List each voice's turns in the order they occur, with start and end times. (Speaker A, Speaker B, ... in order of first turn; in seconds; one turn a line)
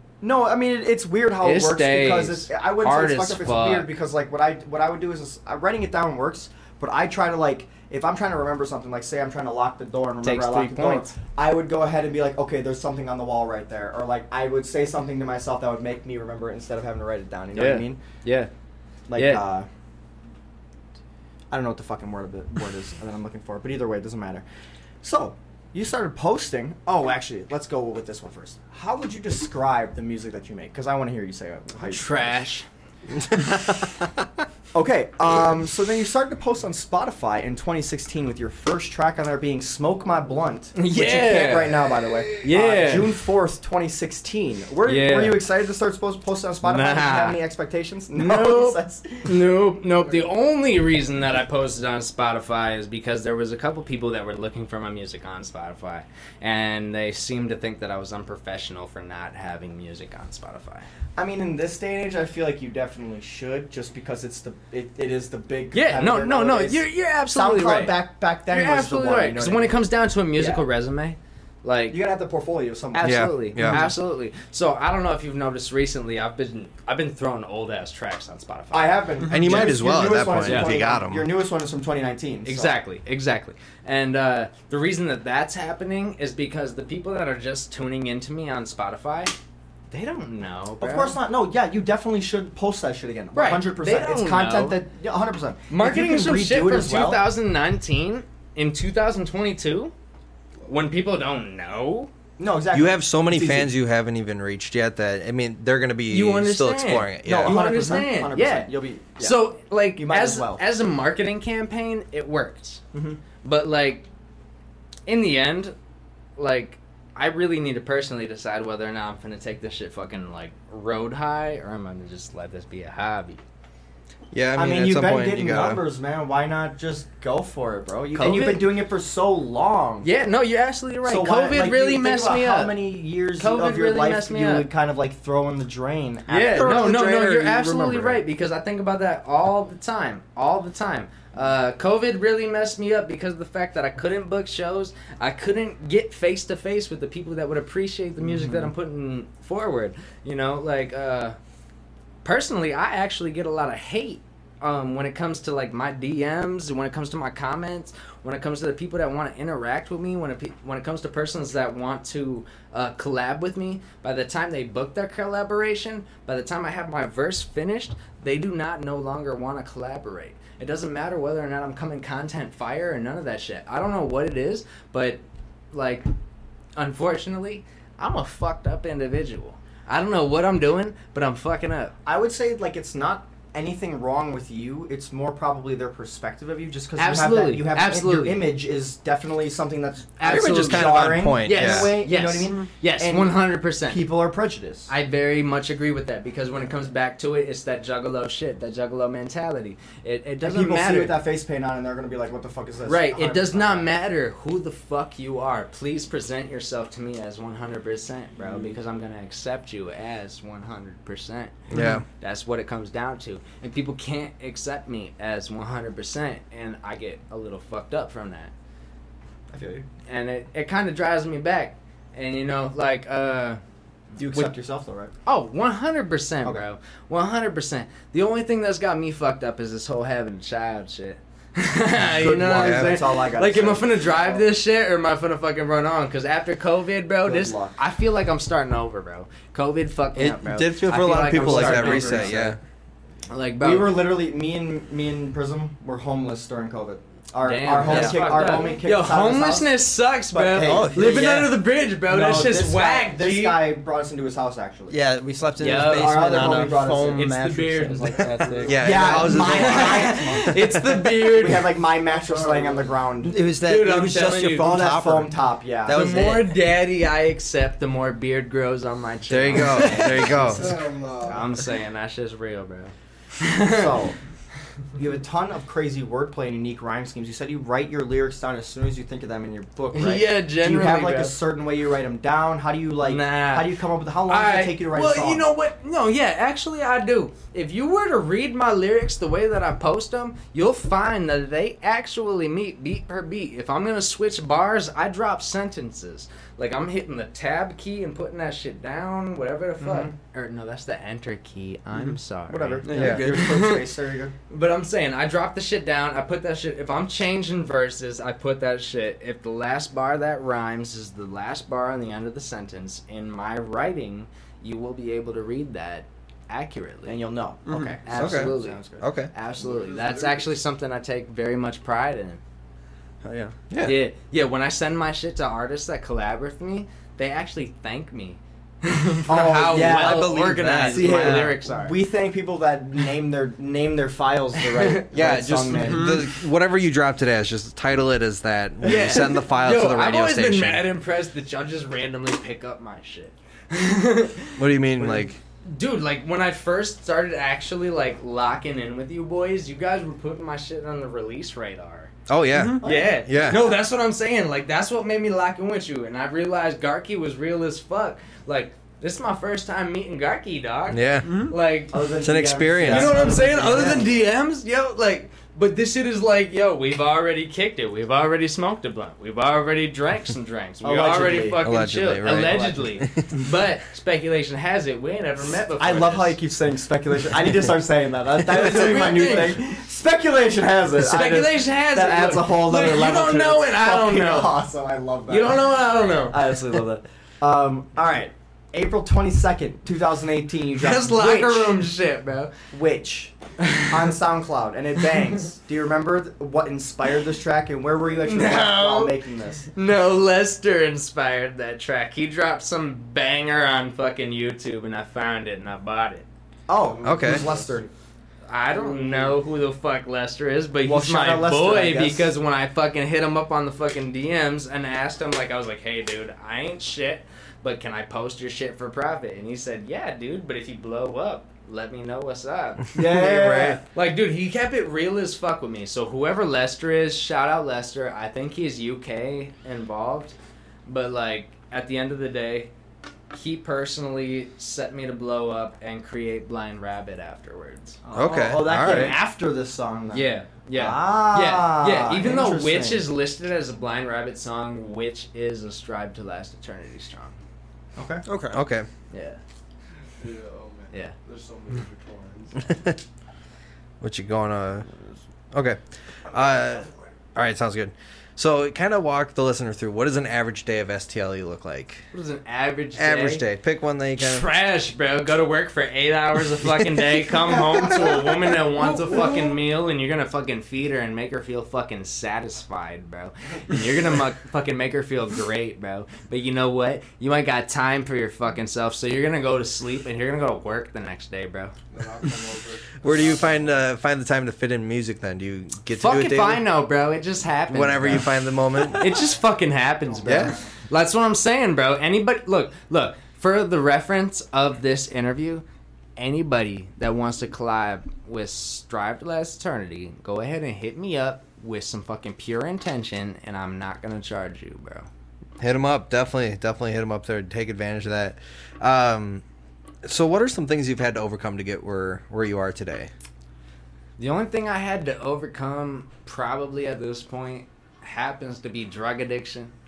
Speaker A: 0.2-18.0
Speaker B: 1.4-3.9
Speaker B: 10.2-11.1
Speaker B: 17.6-18.5
Speaker A: 19.1-19.7
Speaker B: 19.1-19.4
Speaker A: 21.5-24.4
Speaker A: 25.0-32.4
Speaker B: 31.8-32.7
Speaker C: 33.2-34.1
Speaker A: 34.7-49.4
Speaker B: 40.8-41.9
Speaker B: 42.4-43.1
Speaker B: 44.9-45.4
Speaker B: 46.6-47.4
Speaker B: 48.1-60.9
Speaker A: 61.2-69.8
Speaker B: 65.7-72.0
Speaker A: 70.4-70.7
Speaker A: 71.9-73.8
Speaker B: 72.9-79.0
Speaker C: 73.0-73.8
Speaker D: 73.6-73.9
Speaker A: 78.7-82.8
Speaker C: 79.3-81.3
Speaker B: 80.4-80.8
Speaker B: 82.5-89.3
Speaker B: 89.9-91.2
Speaker A: 90.8-97.3
Speaker B: 93.3-94.8
Speaker B: 95.7-99.9
Speaker B: 100.7-102.1
Speaker A: 102.4-103.7
Speaker C: 102.7-107.7
Speaker B: 106.1-112.8
Speaker A: 107.2-109.4
Speaker A: 110.0-110.6
Speaker A: 112.9-113.2
Speaker B: 113.4-114.1
Speaker B: 115.1-115.8
Speaker B: 116.4-123.4
Speaker C: 124.3-125.8
Speaker A: 124.5-130.1
Speaker B: 128.1-128.8
Speaker B: 130.0-132.8
Speaker A: 131.1-137.0
Speaker B: 133.4-134.7
Speaker B: 136.3-151.4
Speaker D: 136.5-138.2
Speaker B: 152.2-175.2
Speaker B: 175.7-176.1
Speaker B: 176.8-181.9
Speaker A: 182.1-194.9
Speaker B: 187.0-188.5
Speaker B: 190.2-194.1
Speaker C: 190.2-192.0
Speaker B: 194.9-201.2
Speaker A: 200.4-203.9
Speaker B: 202.9-211.6
Speaker C: 211.7-212.0
Speaker B: 212.1-218.5
Speaker A: 219.5-219.9
Speaker B: 220.1-223.6
Speaker A: 224.2-225.1
Speaker B: 225.3-242.5
Speaker A: 232.0-234.5
Speaker C: 232.5-233.0
Speaker A: 237.2-237.8
Speaker C: 240.2-242.6
Speaker A: 241.3-242.6
Speaker B: 243.3-244.0
Speaker A: 243.6-249.7
Speaker B: 247.4-253.7
Speaker D: 247.8-248.7
Speaker A: 250.3-251.5
Speaker D: 250.6-251.5
Speaker A: 252.1-255.0
Speaker D: 254.9-261.2
Speaker B: 255.6-261.7
Speaker A: 255.7-257.3
Speaker A: 258.2-260.7
Speaker C: 258.7-260.1
Speaker A: 261.2-263.4
Speaker E: 262.1-262.9
Speaker D: 263.2-265.3
Speaker B: 263.6-264.8
Speaker A: 264.6-266.1
Speaker D: 265.9-266.4
Speaker B: 265.9-274.0
Speaker C: 269.3-270.8
Speaker E: 269.7-271.6
Speaker A: 273.7-274.2
Speaker A: 275.0-285.5
Speaker B: 279.9-281.4
Speaker B: 283.0-283.8
Speaker B: 284.3-303.9
Speaker A: 299.8-300.1
Speaker A: 302.5-304.4
Speaker D: 302.8-303.6
Speaker C: 303.0-303.2
Speaker B: 304.5-322.4
Speaker A: 317.1-319.1
Speaker D: 317.7-318.0
Speaker C: 318.1-319.3
Speaker E: 319.6-320.6
Speaker D: 323.2-323.5
Speaker C: 323.7-324.0
Speaker B: 323.8-332.0
Speaker A: 329.3-336.2
Speaker D: 330.0-331.6
Speaker B: 334.7-335.0
Speaker C: 335.1-340.9
Speaker D: 335.7-336.2
Speaker B: 338.8-352.1
Speaker A: 338.9-339.2
Speaker C: 344.6-345.4
Speaker C: 352.3-353.6
Speaker D: 352.5-352.8
Speaker A: 352.8-353.6
Speaker B: 352.8-362.0
Speaker C: 360.9-361.4
Speaker D: 361.2-361.5
Speaker A: 361.9-364.1
Speaker C: 362.2-363.4
Speaker B: 362.8-376.4
Speaker A: 370.8-371.7
Speaker C: 371.6-373.3
Speaker A: 372.4-372.8
Speaker A: 375.8-385.7
Speaker B: 378.5-379.6
Speaker B: 381.0-384.6
Speaker B: 385.3-386.6
Speaker A: 386.3-391.8
Speaker B: 390.8-392.5
Speaker A: 392.7-399.7
Speaker B: 393.6-394.0
Speaker B: 398.2-399.2
Speaker B: 399.7-406.3
Speaker A: 406.7-407.9
Speaker E: 406.7-407.9
Speaker C: 407.1-407.4
Speaker B: 408.5-432.7
Speaker E: 408.7-409.4
Speaker A: 410.8-412.3
Speaker A: 422.9-423.8
Speaker B: 433.3-438.0
Speaker A: 438.1-443.1
Speaker C: 438.1-439.2
Speaker B: 440.1-447.4
Speaker A: 448.0-448.2
Speaker D: 448.3-448.6
Speaker C: 448.5-448.9
Speaker B: 449.1-449.4
Speaker E: 450.2-452.7
Speaker C: 452.7-453.0
Speaker C: 454.0-454.9
Speaker C: 455.5-462.0
Speaker B: 462.1-463.4
Speaker C: 463.0-464.5
Speaker B: 464.2-481.7
Speaker E: 467.9-468.2
Speaker E: 468.8-469.5
Speaker E: 481.9-483.9
Speaker C: 483.0-486.7
Speaker B: 486.0-495.6
Speaker C: 487.7-489.1
Speaker E: 490.1-490.7
Speaker C: 490.3-490.6
Speaker B: 496.2-505.1
Speaker C: 505.6-509.4
Speaker C: 510.0-513.1
Speaker B: 514.2-519.7